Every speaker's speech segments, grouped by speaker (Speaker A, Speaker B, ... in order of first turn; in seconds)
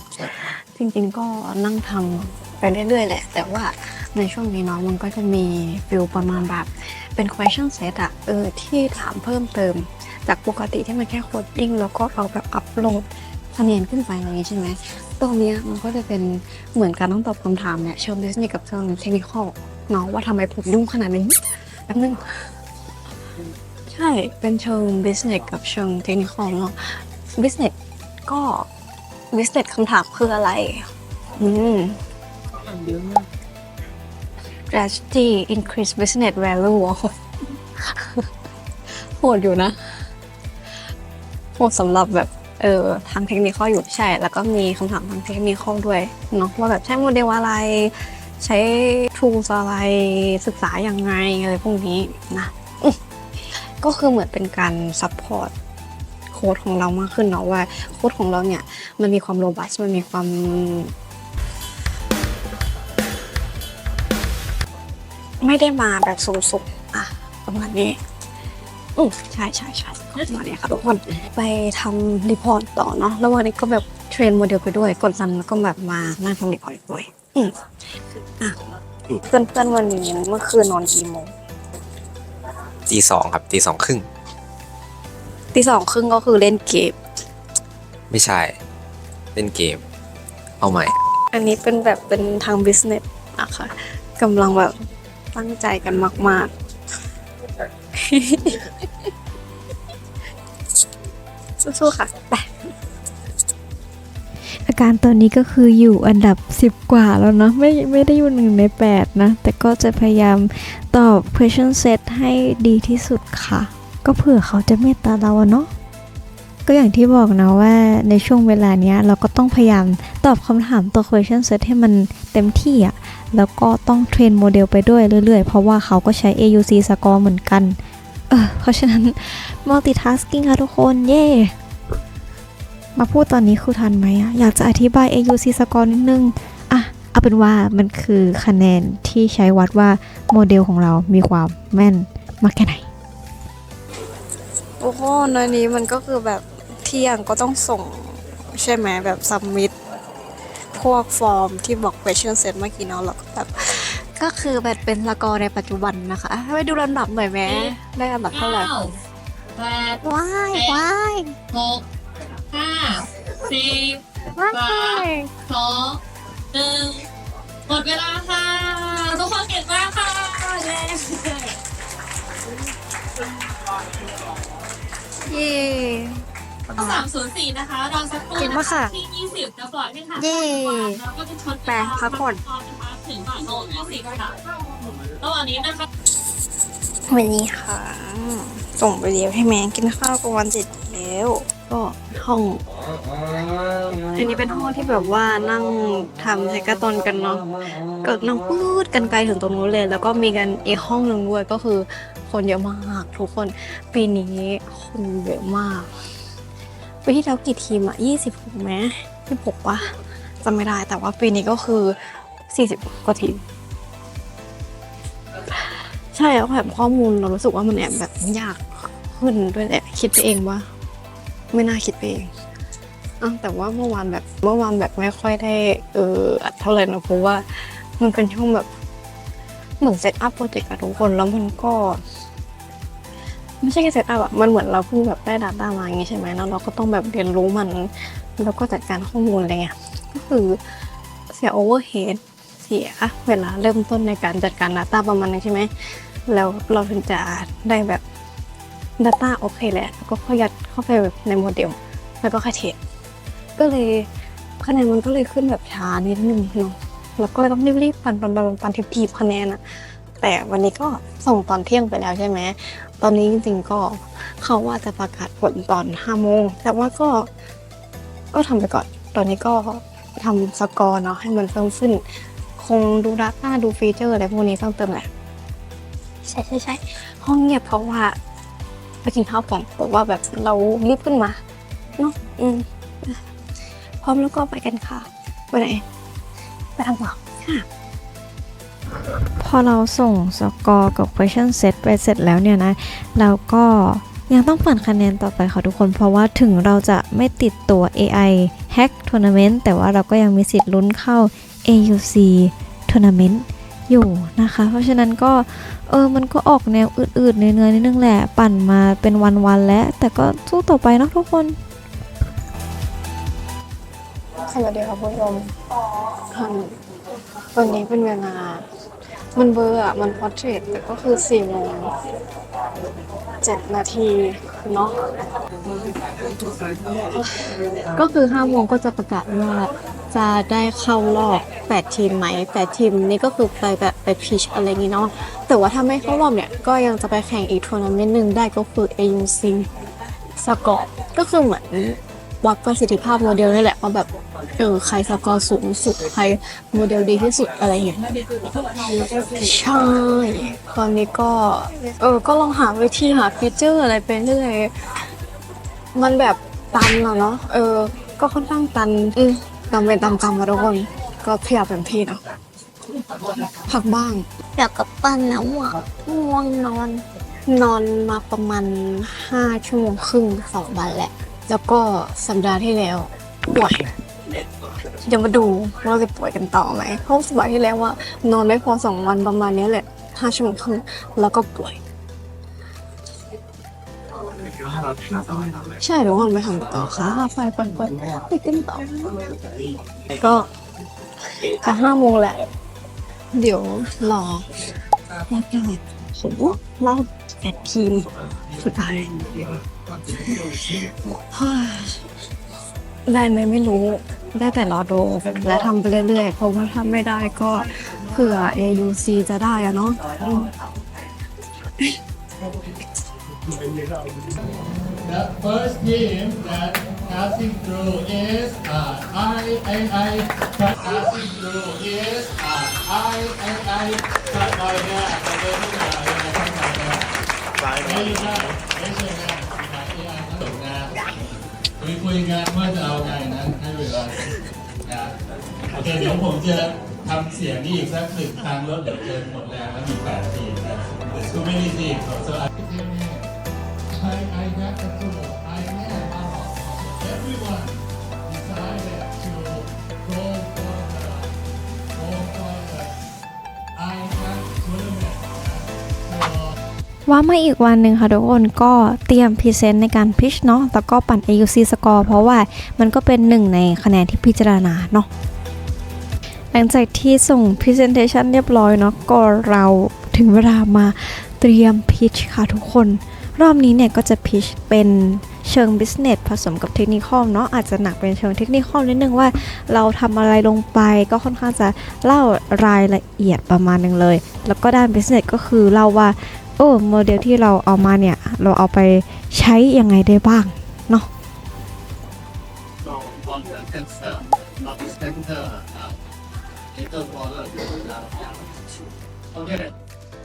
Speaker A: 0.2-22.4, 23.9-27.7, 28.2-28.7, 29.3-32.0, 32.7-33.2, 34.7-37.1, 37.8-38.3, 38.9-40.0, 41.6-53.0, 53.8-55.5, 56.3-60.9, 65.4-68.0, 69.0-77.6, 79.2-81.3, 85.5-87.0, 91.3-94.7, 95.3-96.5, 97.9-98.8, 101.6-102.6, 187.1-192.6, 194.1-197.4, 198.0-205.9, 207.0-212.0, 212.5-213.4, 215.5-220.7, 221.5-222.3, 223.2-228.7, 229.8-232.0, 233.6-240.6, 241.3-245.7, 246.3-248.0, 249.0-252.8, 253.6-254.1, 254.6-259.6, 260.2-267.3, 268.3-272.0, 272.6-275.1, 276.2-278.2, 279.0-281.4, 282.0-283.2, 284.0-285.8, 286.8-287.6, 314.4-315.5, 316.2-316.8, 317.5-318.6, 319.4-321.9, 323.4-325.0, 326.4-339.7, 340.4-354.7, 355.9-362.2, 363.1-374.5, 375.0-381.8, 384.9-389.6, 390.1-390.5, 391.4-392.5, 393.3-394.5, 395.2-402.0, 403.1-410.5
Speaker B: 82.9-84.1, 88.1-88.6, 89.3-89.8, 90.6-90.9
Speaker C: 104.7-115.7, 116.7-127.8, 128.3-131.5, 133.0-142.9, 144.8-147.9, 148.5-149.7, 150.8-158.7, 160.0-161.3, 164.4-165.3, 175.3-176.1, 178.4-178.9, 180.2-181.0, 181.7-182.3, 289.4-311.6, 457.1-465.1, 466.5-491.1
Speaker D: 157.5-157.8, 158.3-159.0, 159.6-160.0, 160.5-160.8, 161.5-161.9, 162.5-166.0, 166.5-167.1, 167.7-171.6, 176.8-184.6, 185.2-185.9
Speaker E: 415.0-427.1, 427.8-431.1, 431.8-435.1, 435.7-443.3, 443.9-451.3, 451.9-452.9, 453.8-456.6, 492.8-495.9, 496.8-498.3, 499.4-499.7